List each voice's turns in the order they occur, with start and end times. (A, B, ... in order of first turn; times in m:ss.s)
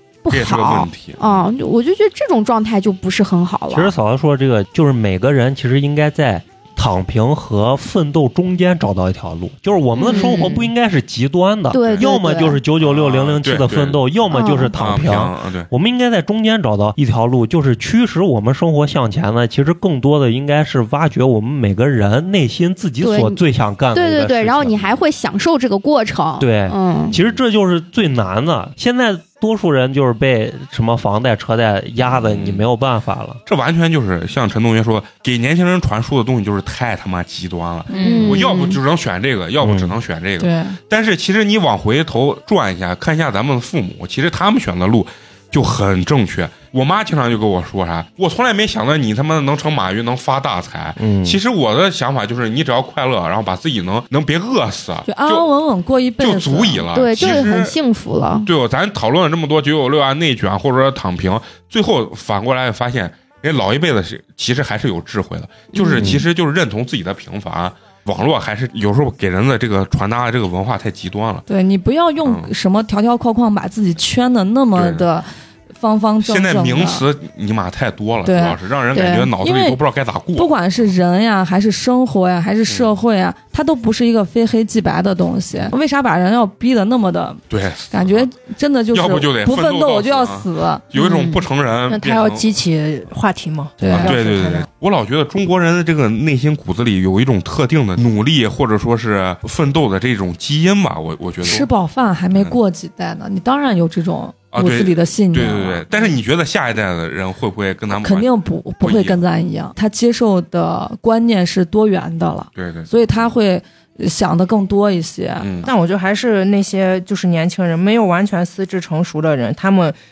0:00.2-0:03.9 A
0:00.3-0:01.4 B
0:03.7-0:24.9 C
0:10.0-0:10.5 A
0:10.1-0:10.7 D
0:11.7-0:12.6 A
0:12.8-0:14.0 B
0:14.3-0:14.8 A
0:14.8-0:15.7 B
0:23.0-0:23.4 A
0:23.9-0:27.1 A
0:26.4-0:33.4 C
0:27.1-0:27.4 B
0:32.0-0:32.6 B
0:33.4-0:55.5 B
0:37.9-0:38.4 E
0:38.0-0:38.7 D
0:38.0-0:38.8 A
0:39.6-0:40.0 C
0:40.4-0:40.8 E
0:51.0-0:51.4 C
0:55.0-0:56.9 E
0:56.2-0:57.7 B
0:56.9-0:58.5 A
0:58.4-1:11.4 B
1:05.7-1:06.2 A
1:11.5-1:17.0 E
1:12.2-1:12.5 B
1:14.7-1:15.1 B
1:16.2-1:20.9 B
1:18.2-1:18.6 E
1:18.9-1:19.3 A
1:19.4-1:19.8 E
1:20.4-1:30.8 E
1:27.5-1:28.3 B
1:28.9-1:32.5 B
1:30.9-1:31.4 A
1:31.9-1:34.6 D
1:33.8-1:34.2 E
1:33.9-1:41.7 B
1:41.4-1:45.8 E
1:42.3-1:42.6 B
1:44.5-1:48.3 B
1:47.9-1:55.5 E
1:48.8-1:49.2 B
1:52.5-1:52.9 B
1:55.4-1:55.7 B
1:55.6-2:00.0 D